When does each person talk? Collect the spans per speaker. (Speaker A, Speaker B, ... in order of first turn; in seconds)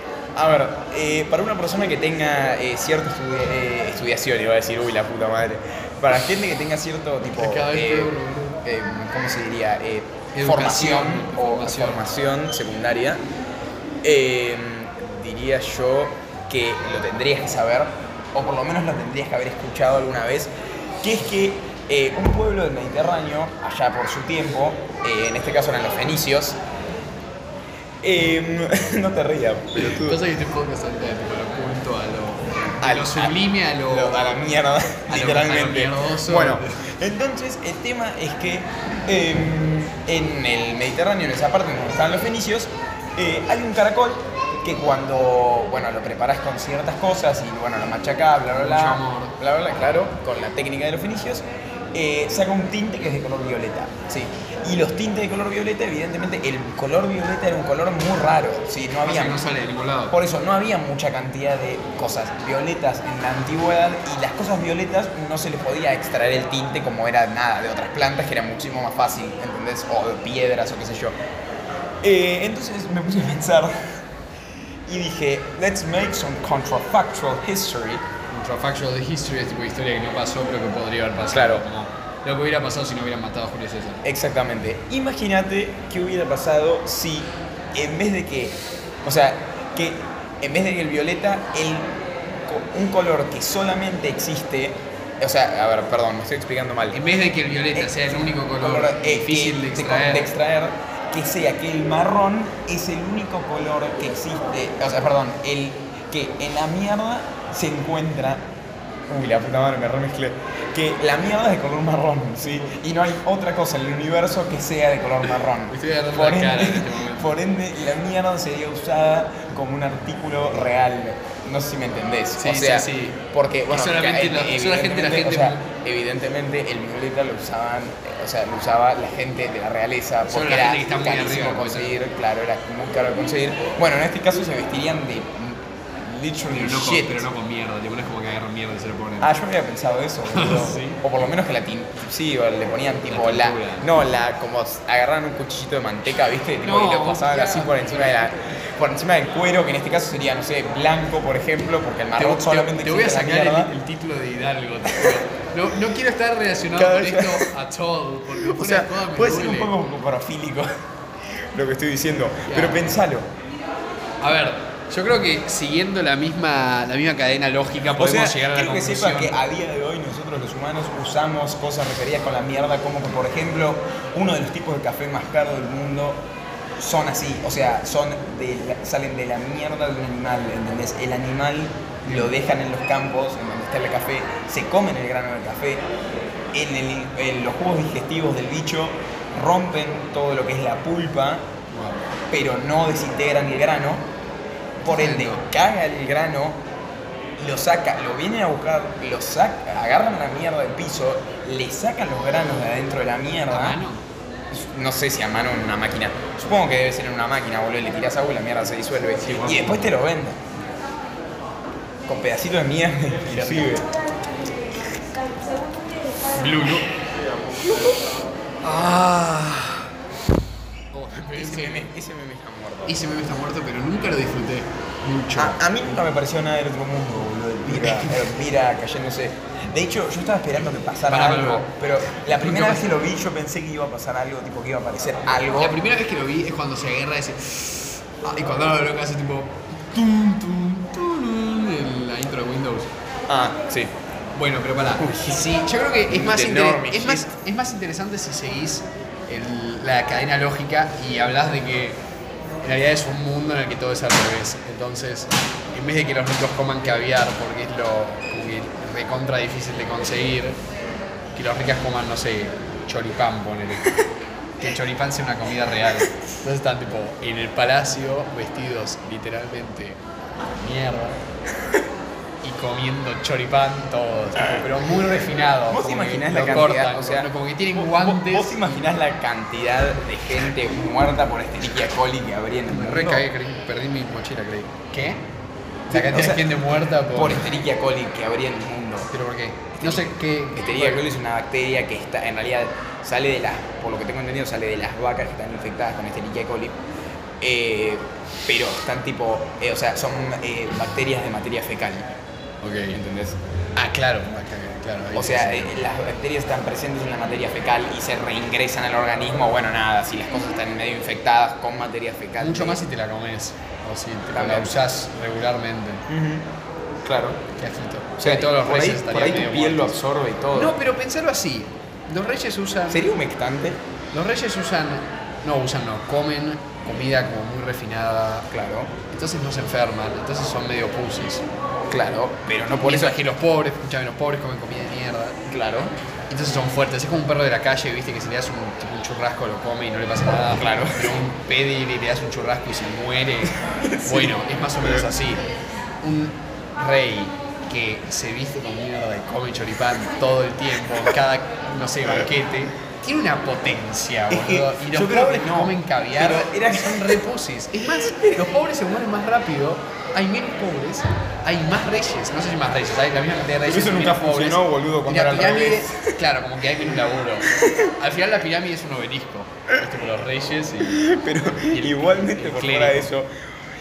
Speaker A: 0.3-13.2, 14.0-26.6, 28.0-30.2, 32.8-59.4, 60.1-71.2, 72.0-74.0, 74.8-78.0, 81.3-81.6, 84.0-97.0, 97.7-108.5, 109.1-137.3, 139.2-153.7, 154.9-155.2, 156.7-157.5, 158.3-160.7, 161.5-163.3, 168.0-176.2, 176.8-185.8, 186.5-191.4, 192.3-194.1, 194.8-196.6, 197.4-203.8, 204.5-210.4, 212.1-213.9, 221.3-223.0, 225.3-235.8, 243.3-243.9, 245.0-245.5, 246.1-247.3, 275.7-283.3, 285.9-286.4, 287.1-289.1, 289.7-296.8, 297.4-302.1, 302.9-303.4, 305.1-312.8, 314.3-314.7, 316.1-316.5, 317.1-317.4, 318.2-320.8, 322.9-323.8, 328.5-328.9, 331.9-333.2, 335.5-335.9, 340.6-341.2, 343.6-345.1, 350.8-351.1, 354.3-357.2, 357.8-358.5, 363.6-366.2, 366.9-367.9, 370.8-373.3
Speaker B: 7.3-8.6, 10.3-12.0, 29.8-34.4, 35.1-36.8, 48.5-49.4, 59.0-60.2, 78.3-84.0, 96.9-100.3, 112.5-112.8, 115.7-117.3, 122.4-125.6, 130.3-132.0, 136.5-139.3, 140.3-141.0, 143.1-143.9, 146.6-148.5, 152.2-159.7, 162.4-163.0, 164.2-169.4, 182.1-182.3, 191.7-192.1, 194.8-195.4, 203.5-204.0, 209.2-209.9, 213.3-213.7, 216.3-216.9, 218.6-219.9, 220.9-221.9, 222.9-225.6, 227.7-228.3, 231.1-231.7, 232.3-232.9, 235.6-242.9, 244.3-252.0, 252.6-260.6, 261.3-263.9, 264.6-271.2, 272.4-278.8, 282.7-285.2, 285.9-287.5, 289.1-291.1, 302.6-303.0, 303.8-305.8, 312.4-316.0, 317.6-319.9, 320.5-323.1, 324.1-328.5, 329.1-331.4, 332.8-335.4, 336.3-345.4, 346.0-371.1, 371.7-373.1